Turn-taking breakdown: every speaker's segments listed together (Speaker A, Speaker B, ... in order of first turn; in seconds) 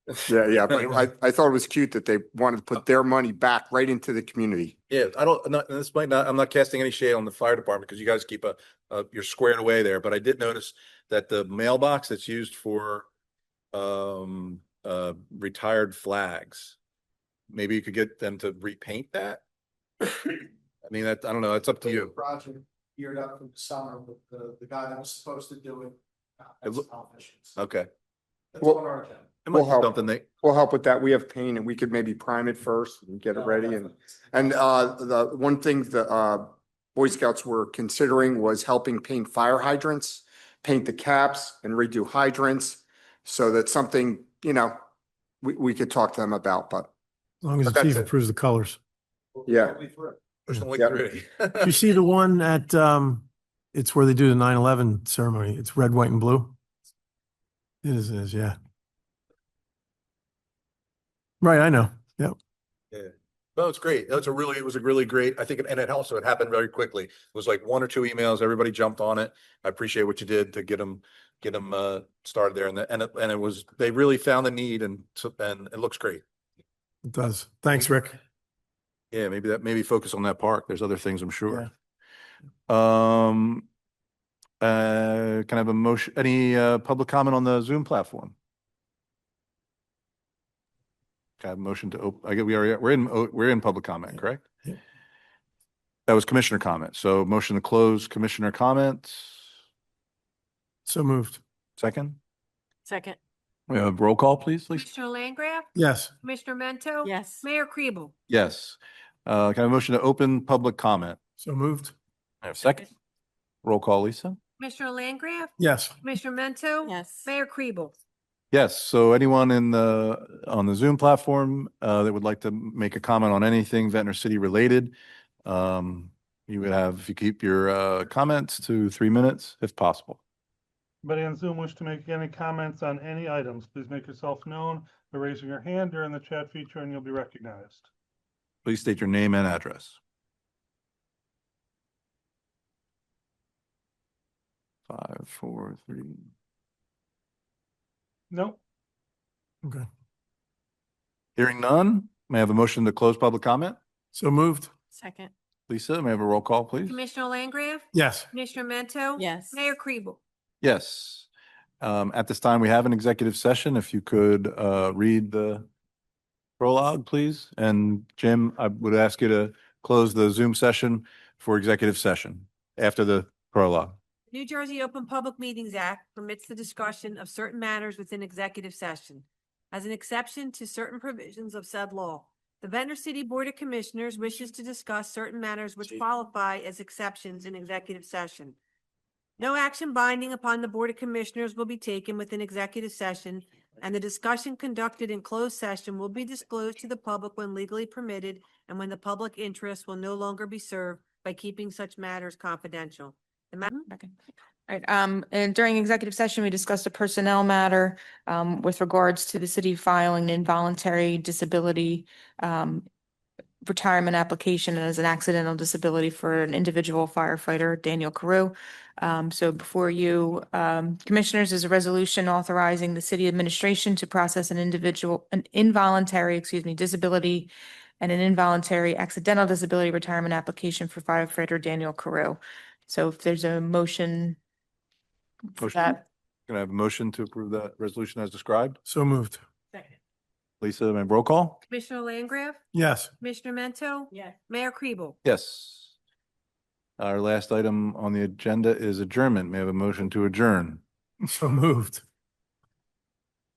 Speaker A: 0.2-4.8, 28.6-28.8, 29.5-44.8, 45.4-46.9, 47.7-48.1, 49.5-49.8
Speaker B: 4.9-13.1, 13.7-16.8, 17.5-19.4, 20.8-22.1, 27.6-27.9, 29.4-30.2, 50.5-51.8, 62.9-76.2, 79.1-81.7, 82.7-83.7, 84.6-88.3, 91.4-94.5, 96.1-99.5, 101.8-102.2, 103.7-104.9, 108.3-111.2, 112.4-112.9, 113.6-114.4, 118.5-130.2, 138.7-140.0, 144.9-146.3, 151.4-153.8, 155.7-157.0, 160.6-161.3, 161.8-165.7, 166.6-174.0, 235.6-238.8, 240.6-241.6, 245.2-245.9, 247.0-250.8
Speaker C: 22.2-25.9, 26.6-27.5
Speaker D: 47.4-48.8, 51.6-56.5, 57.8-58.6, 61.4-62.4, 77.0-78.2, 100.9-101.4, 105.8-106.1, 111.4-111.9, 115.6-116.0, 154.1-154.7, 157.9-158.3, 238.8-239.4, 242.7-243.1, 251.3-252.0
Speaker E: 102.8-103.2, 107.0-107.5, 116.8-117.3, 154.9-155.3, 159.2-159.8, 244.1-244.4
Speaker F: 104.7-105.7, 106.2-108.1, 114.6-117.9, 156.9-160.2, 174.3-188.6, 189.4-203.9, 241.7-242.6, 243.2-245.2
Speaker G: 131.0-137.9, 148.3-148.6
Speaker H: 203.9-212.9, 213.6-234.4, 235.6-236.0